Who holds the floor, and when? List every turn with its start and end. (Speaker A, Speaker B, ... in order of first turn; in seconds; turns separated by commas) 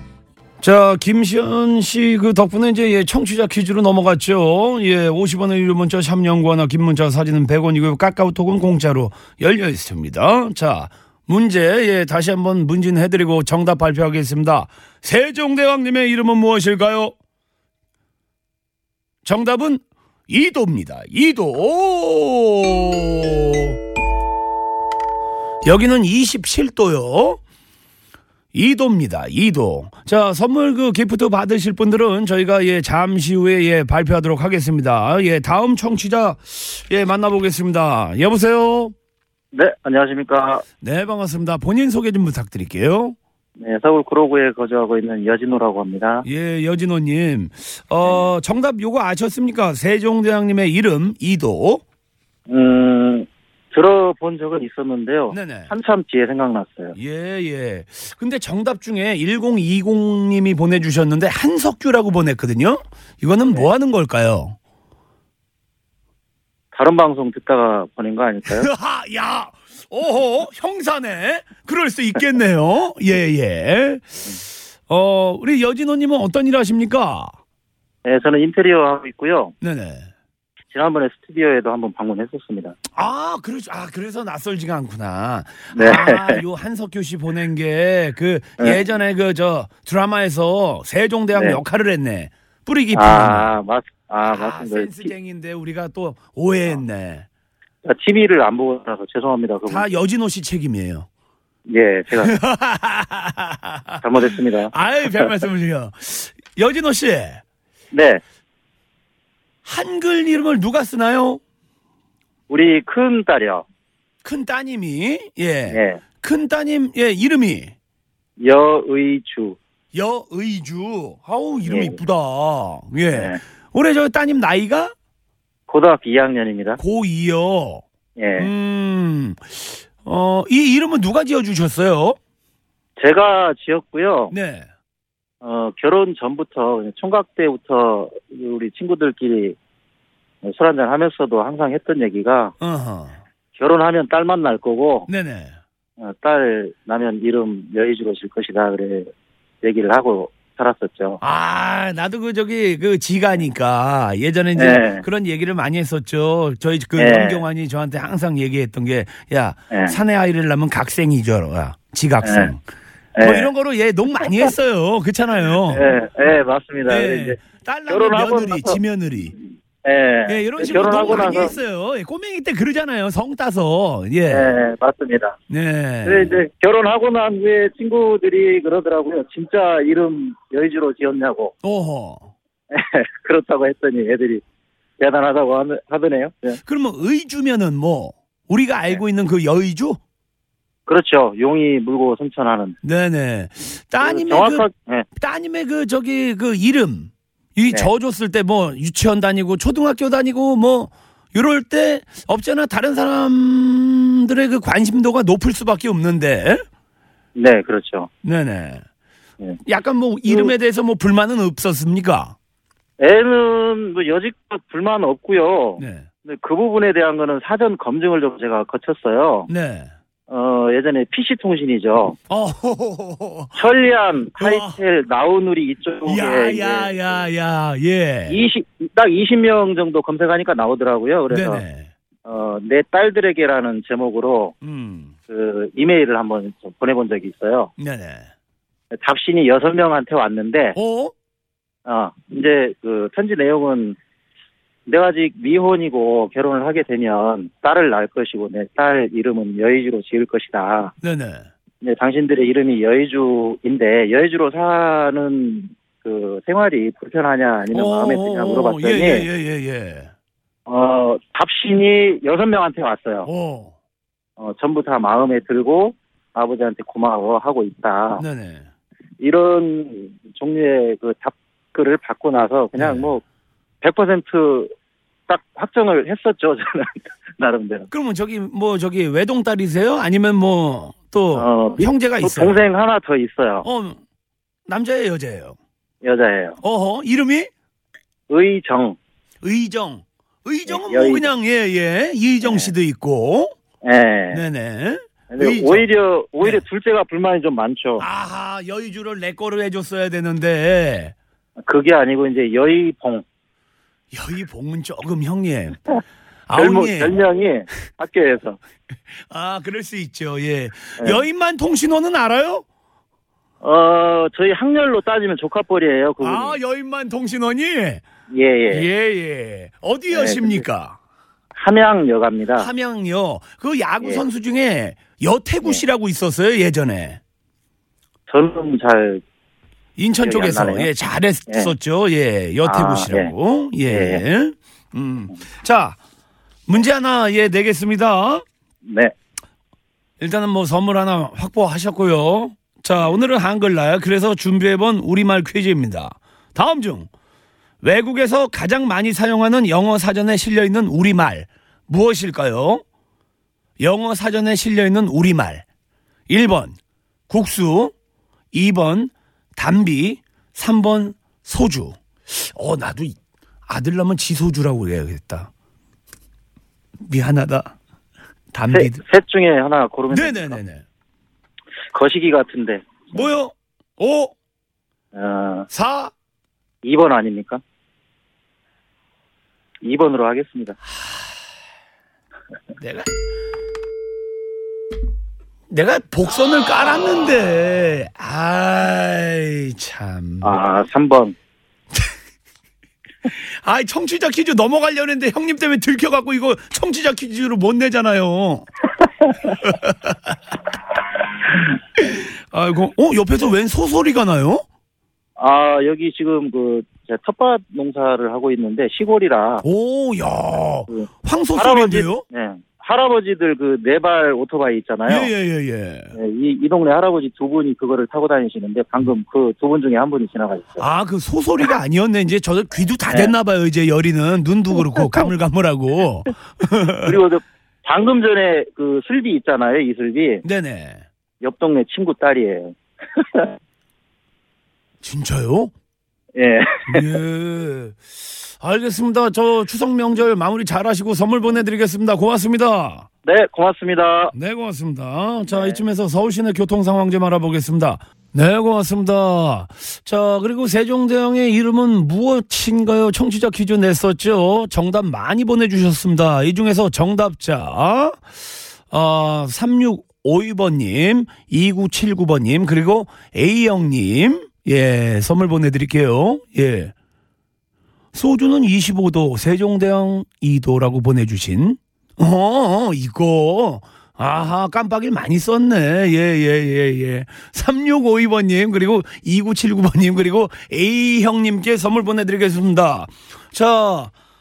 Speaker A: 0.6-17.1, Speaker A: 19.2-23.8, Speaker A: 25.6-27.4, Speaker A: 28.5-38.9, Speaker B: 39.5-40.6, Speaker A: 40.8-43.2, Speaker B: 43.6-46.2, Speaker A: 46.2-51.8, Speaker B: 52.5-57.0, Speaker A: 55.3-55.7, Speaker A: 57.0-64.5, Speaker B: 66.7-68.7, Speaker A: 68.5-74.2, Speaker A: 74.9-77.3, Speaker B: 78.0-79.5, Speaker A: 79.6-80.1, Speaker B: 80.7-82.8, Speaker A: 82.9-93.5, Speaker B: 85.7-86.4, Speaker B: 91.3-91.6, Speaker B: 92.9-95.1, Speaker A: 94.2-97.2, Speaker B: 97.8-99.9, Speaker A: 99.7-101.1, Speaker B: 101.7-102.4, Speaker A: 102.2-107.4, Speaker B: 104.0-105.3, Speaker B: 107.9-108.2, Speaker A: 109.6-111.4, Speaker B: 112.5-113.6, Speaker A: 114.2-117.7, Speaker B: 115.7-116.0, Speaker B: 118.4-119.6, Speaker A: 119.9-124.9, Speaker B: 121.7-122.0, Speaker B: 123.1-123.4, Speaker B: 125.7-126.8, Speaker A: 126.8-127.8, Speaker B: 128.2-128.5, Speaker A: 128.4-132.2, Speaker B: 133.0-134.3, Speaker A: 134.3-134.7, Speaker B: 135.4-139.6, Speaker B: 140.4-142.5, Speaker A: 142.6-143.2, Speaker B: 143.6-145.1, Speaker A: 145.1-145.6, Speaker B: 146.0-149.1, Speaker B: 149.6-151.2, Speaker A: 151.2-162.6, Speaker B: 154.6-155.0, Speaker B: 157.0-157.4, Speaker B: 159.7-159.9, Speaker B: 162.2-162.5, Speaker B: 163.2-163.5, Speaker A: 163.2-165.9, Speaker B: 165.7-168.8, Speaker A: 166.9-169.3, Speaker B: 169.8-171.5, Speaker A: 170.2-174.5, Speaker B: 174.3-175.4, Speaker A: 175.5-176.4, Speaker B: 176.0-181.5, Speaker A: 181.6-182.3, Speaker B: 182.7-184.4, Speaker B: 185.0-186.6, Speaker A: 186.7-190.0, Speaker B: 190.9-192.8, Speaker A: 192.8-206.6, Speaker B: 194.0-195.1, Speaker B: 207.3-208.1, Speaker A: 208.2-208.8, Speaker A: 209.6-212.3, Speaker B: 210.3-210.5, Speaker B: 213.0-219.5, Speaker A: 215.8-216.1, Speaker A: 219.5-219.9, Speaker B: 220.3-222.2, Speaker A: 222.3-223.6, Speaker B: 223.5-227.2, Speaker A: 224.4-224.8, Speaker A: 226.0-228.4, Speaker B: 228.3-231.6, Speaker A: 231.3-231.9, Speaker B: 232.2-234.5, Speaker A: 234.6-235.2, Speaker B: 235.3-237.7, Speaker A: 237.8-238.3, Speaker B: 238.9-240.8, Speaker A: 240.7-241.1, Speaker B: 241.8-244.0, Speaker B: 244.9-250.9, Speaker A: 251.0-251.5, Speaker B: 251.8-259.3, Speaker A: 257.7-260.1, Speaker B: 260.7-263.3, Speaker A: 263.2-263.7, Speaker B: 264.4-268.2, Speaker A: 268.2-268.7, Speaker B: 269.2-273.2, Speaker A: 272.7-273.1, Speaker B: 273.8-274.7, Speaker B: 275.3-277.9, Speaker A: 277.9-282.6, Speaker B: 281.3-283.6, Speaker A: 283.6-284.0, Speaker A: 284.7-285.6, Speaker B: 286.0-286.6, Speaker A: 286.6-287.5, Speaker B: 288.3-289.0, Speaker A: 289.4-293.5, Speaker B: 290.7-291.3, Speaker B: 292.4-292.7, Speaker B: 293.8-294.4, Speaker A: 294.3-295.9, Speaker B: 295.3-298.0, Speaker A: 298.0-301.1, Speaker B: 301.6-303.2, Speaker A: 304.1-305.8, Speaker A: 306.5-307.1, Speaker B: 306.5-308.6, Speaker A: 309.1-312.6, Speaker B: 313.6-316.6, Speaker A: 316.2-318.0, Speaker B: 318.3-318.9, Speaker A: 318.7-321.0, Speaker B: 320.1-320.6, Speaker B: 321.6-322.7, Speaker A: 322.6-327.2, Speaker B: 328.3-329.2, Speaker A: 330.0-336.0, Speaker B: 330.2-330.9, Speaker B: 331.5-331.7, Speaker B: 332.6-333.3, Speaker B: 333.9-334.2, Speaker A: 336.7-338.4, Speaker B: 338.8-339.1, Speaker A: 340.2-347.1, Speaker A: 347.8-352.8, Speaker A: 353.8-355.6, Speaker A: 356.3-356.8, Speaker A: 357.3-357.9, Speaker A: 358.5-365.5, Speaker A: 367.0-367.8, Speaker A: 368.5-369.0, Speaker B: 368.7-370.6, Speaker A: 370.1-370.8, Speaker B: 371.9-373.2, Speaker A: 373.1-374.3, Speaker B: 375.1-375.7, Speaker A: 375.7-376.1, Speaker B: 376.8-377.6, Speaker B: 379.8-380.8, Speaker A: 380.9-381.2, Speaker A: 382.8-383.1, Speaker A: 385.7-390.6, Speaker B: 390.4-391.3, Speaker A: 393.4-398.7, Speaker A: 399.6-400.4, Speaker A: 402.0-404.6, Speaker B: 405.4-409.6, Speaker A: 409.6-412.2, Speaker B: 410.9-415.3, Speaker A: 415.1-416.1, Speaker B: 416.1-420.8, Speaker A: 420.8-427.2, Speaker B: 423.1-423.3, Speaker B: 427.0-430.4, Speaker A: 430.4-431.0, Speaker B: 431.4-433.5, Speaker A: 435.0-435.7, Speaker B: 436.4-437.1, Speaker A: 436.9-443.1, Speaker B: 443.2-444.3, Speaker A: 444.3-458.2, Speaker B: 445.5-445.8, Speaker A: 458.9-466.9, Speaker A: 468.1-484.1